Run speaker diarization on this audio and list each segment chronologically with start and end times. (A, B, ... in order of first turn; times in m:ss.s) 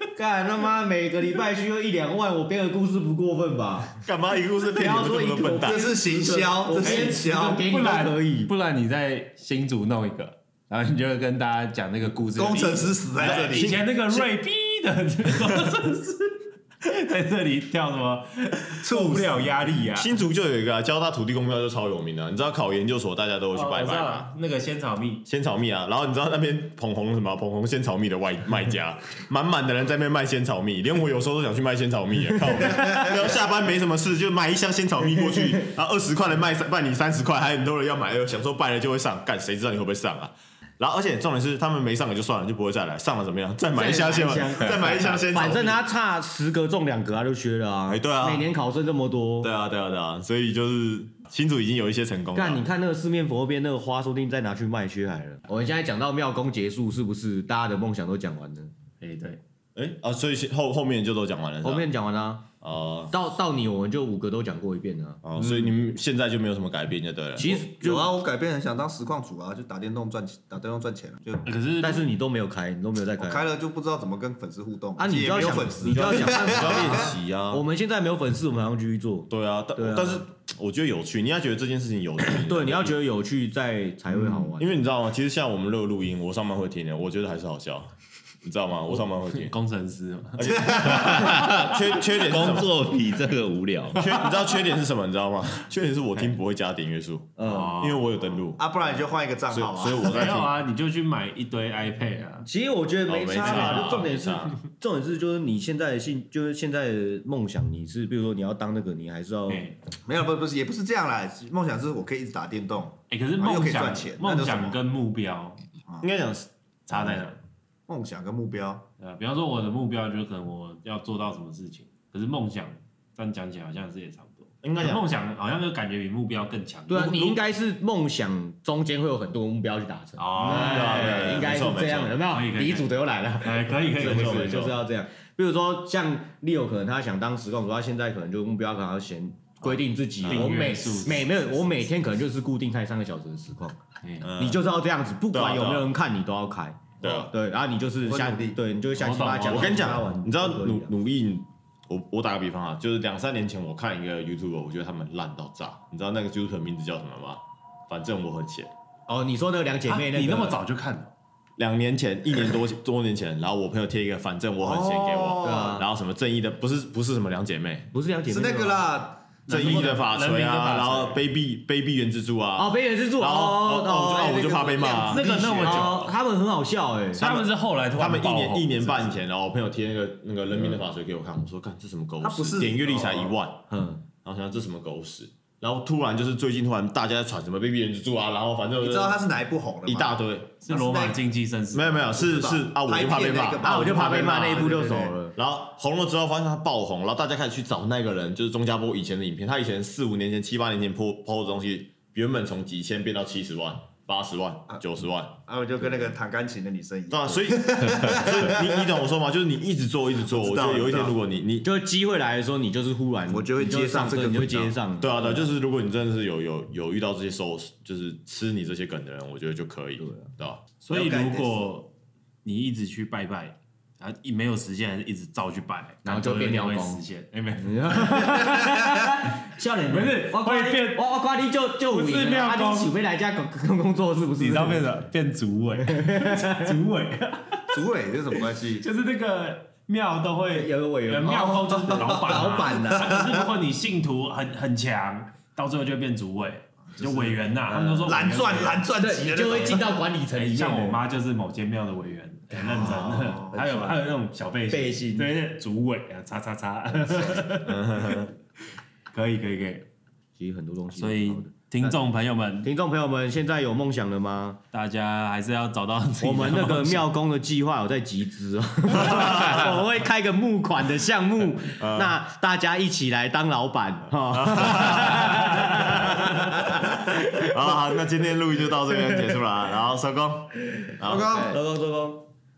0:00.2-0:04.0 A
0:04.0-0:05.8 B
0:04.7-0:08.5 A
0:05.6-0:07.6 C
0:06.8-0:20.1 D
0:12.3-0:13.8 C
0:18.8-0:19.5 C
0:20.0-0:24.3 B
0:23.5-0:25.2 D
0:25.2-0:45.8 B
0:43.7-0:49.5 A
0:47.9-0:48.4 B
0:49.4-0:52.6 B
0:52.3-0:58.7 A
0:59.0-0:59.4 D
0:59.7-1:01.9 B
1:01.6-1:02.4 A
1:02.6-1:03.1 B
1:03.1-1:05.2 A
1:05.2-1:07.6 B
1:07.4-1:08.1 A
1:07.6-1:11.5 C
1:11.4-1:12.1 D
1:11.8-1:13.5 A
1:13.2-1:17.1 C
1:15.0-1:20.2 A
1:16.1-1:17.6 B
1:19.3-1:23.0 B
1:22.2-1:24.8 A
1:24.5-1:27.9 B
1:28.4-1:29.5 B
1:29.3-1:31.2 D
1:30.4-1:32.7 B
1:31.3-1:34.3 E
1:34.0-1:38.6 B
1:37.4-1:37.8 A
1:37.4-1:38.0 D
1:38.6-1:40.1 C
1:39.5-1:40.5 B
1:40.0-1:42.5 D
1:42.4-1:49.6 A
1:43.1-1:44.6 B
1:43.4-1:44.1 D
1:49.5-1:49.8 D
1:50.0-1:54.8 C
1:53.1-1:55.6 D
1:56.0-1:57.3 B
1:56.9-1:57.4 D
1:57.9-1:58.8 C
1:59.0-2:07.4 D
2:04.6-2:05.0 B
2:06.9-2:23.8 A
2:10.2-2:11.5 D
2:10.4-2:12.2 B
2:12.3-2:12.9 D
2:13.4-2:14.6 D
2:13.9-2:14.7 B
2:20.2-2:20.5 B
2:20.3-2:21.8 D
2:24.2-2:24.6 B
2:24.3-2:30.9 A
2:25.3-2:25.9 B
2:27.0-2:27.3 B
2:28.0-2:28.6 C
2:29.0-2:30.0 D
2:29.5-2:38.7 B
2:39.1-2:40.6 A
2:39.9-2:41.1 D
2:41.6-2:47.9 B
2:44.6-2:45.7 C
2:45.4-2:45.9 A
2:47.9-2:48.9 A
2:48.3-2:49.4 C
2:49.5-2:51.2 D
2:49.5-2:56.1 B
2:52.6-2:54.5 A
2:54.1-2:55.8 C
2:55.1-2:56.1 D
2:55.1-2:57.2 A
2:57.2-2:59.2 D
2:57.2-3:03.6 B
3:02.2-3:03.4 C
3:03.7-3:04.0 A
3:04.2-3:09.2 B
3:08.8-3:11.2 C
3:09.8-3:10.6 B
3:10.6-3:12.3 D
3:11.7-3:14.1 B
3:12.2-3:15.2 C
3:13.6-3:15.3 A
3:15.3-3:25.4 B
3:25.4-3:28.9 C
3:27.1-3:31.6 B
3:30.2-3:31.2 C
3:31.6-3:35.5 A
3:33.3-3:34.8 C
3:35.0-3:40.6 B
3:40.0-3:40.3 A
3:40.8-3:41.9 D
3:40.9-3:41.7 C
3:42.4-3:48.6 D
3:46.0-3:47.0 A
3:47.6-3:55.0 A
3:49.9-3:51.0 D
3:51.9-3:52.9 D
3:54.4-3:57.8 D
3:56.1-3:56.6 A
3:57.7-3:58.8 C
3:58.8-4:08.8 D
4:00.5-4:03.2 A
4:06.9-4:07.3 C
4:07.7-4:08.2 A
4:08.0-4:10.0 C
4:09.0-4:11.0 A
4:10.3-4:18.3 D
4:12.7-4:14.0 A
4:12.8-4:13.6 C
4:14.7-4:15.3 A
4:17.6-4:18.3 B
4:19.1-4:19.9 D
4:20.4-4:22.0 A
4:20.9-4:22.7 D
4:22.6-4:24.6 A
4:24.7-4:27.1 D
4:26.2-4:37.5 A
4:31.8-4:32.1 B
4:34.4-4:36.3 B
4:37.3-4:41.4 B
4:41.0-4:42.3 A
4:41.1-4:41.6 C